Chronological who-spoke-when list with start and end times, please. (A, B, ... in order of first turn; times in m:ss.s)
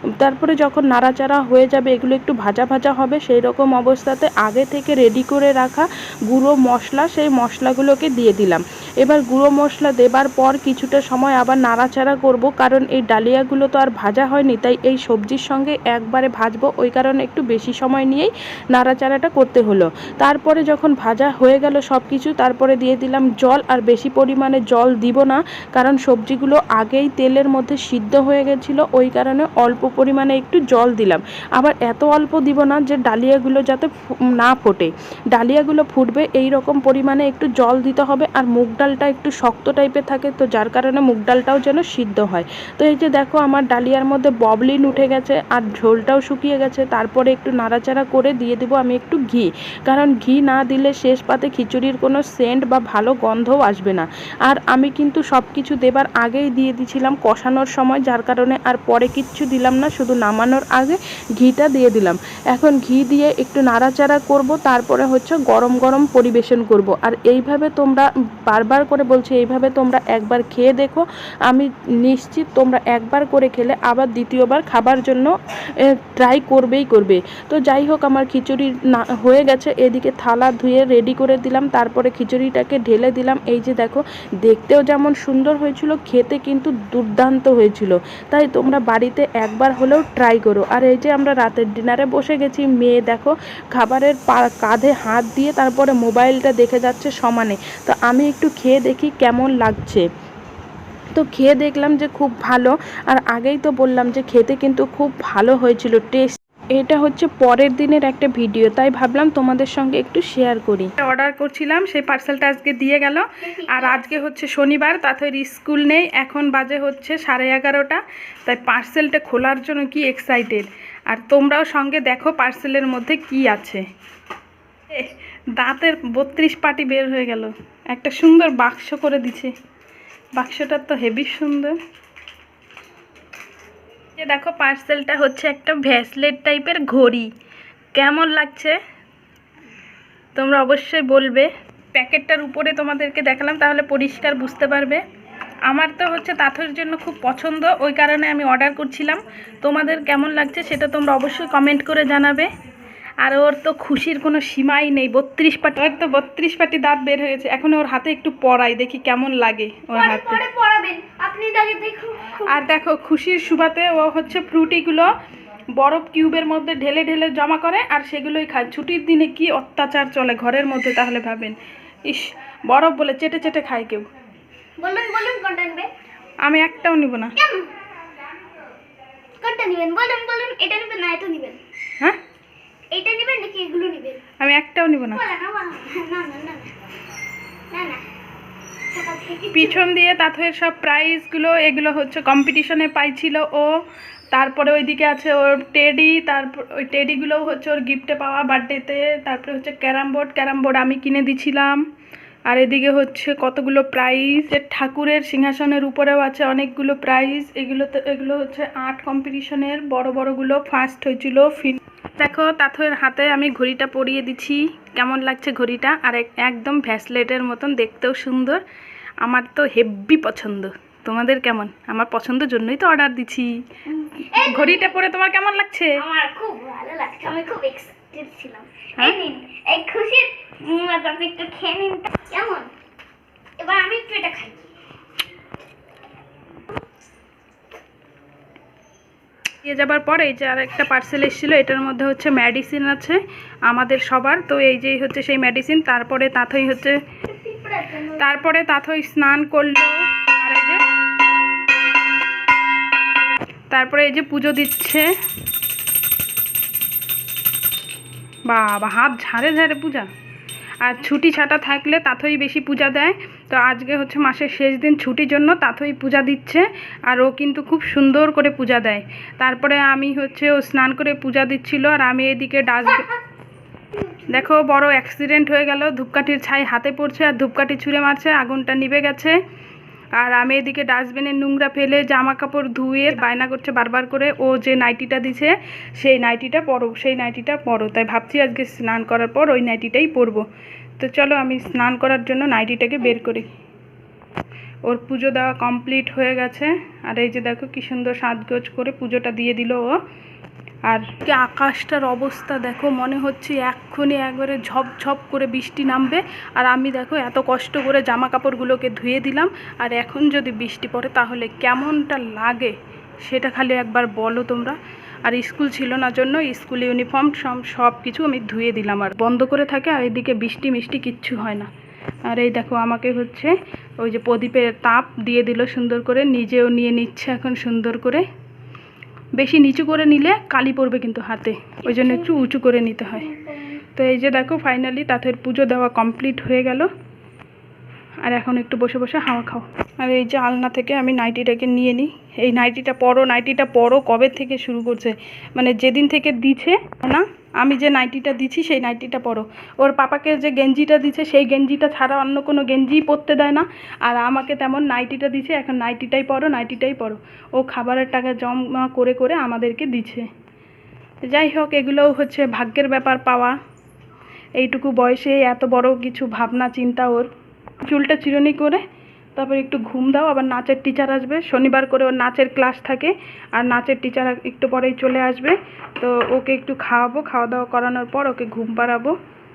0:00.2-1:15.3 A
1:16.2-1:40.0 A
1:41.2-1:50.9 A
1:51.0-2:03.8 B
1:53.4-1:54.0 C
2:04.9-2:09.5 B
2:10.4-2:11.7 B
2:14.2-2:17.3 B
2:17.9-2:18.8 B
2:20.4-2:25.0 B
2:25.7-2:32.5 B
2:33.2-2:40.4 B
2:39.9-2:42.5 C
2:42.4-2:45.1 B
2:45.8-2:51.6 B
2:52.1-2:54.1 B
2:54.8-2:55.9 C
2:56.4-2:57.3 B
2:57.4-2:57.7 C
2:59.4-3:01.6 C
3:02.9-3:04.2 C
3:04.4-3:05.2 B
3:05.1-3:06.7 C
3:07.7-3:08.0 C
3:08.9-3:09.8 C
3:09.5-3:13.7 B
3:14.3-3:21.8 B
3:22.5-3:38.6 B
3:39.2-3:43.6 B
3:43.9-3:45.0 C
3:44.2-3:46.0 B
3:45.9-3:52.7 C
3:53.6-3:54.6 C
3:59.6-4:07.0 B
4:07.3-4:08.2 C
4:08.2-4:10.8 B
4:13.7-4:15.1 B
4:18.5-4:20.1 B
4:20.8-4:33.0 B
4:32.8-4:33.2 C
4:33.9-4:34.4 C
4:34.3-4:39.4 B
4:40.2-4:50.4 B
4:51.0-4:53.5 B
4:54.8-5:00.0 B
5:00.9-5:21.7 B
5:22.3-5:28.2 B
5:29.4-5:33.3 B
5:31.8-5:32.3 C
5:33.2-5:33.8 C
5:34.0-5:36.9 B
5:38.2-6:00.3 B
6:01.3-6:03.6 B
6:04.6-6:07.3 B
6:07.8-6:08.8 B
6:09.4-6:19.1 B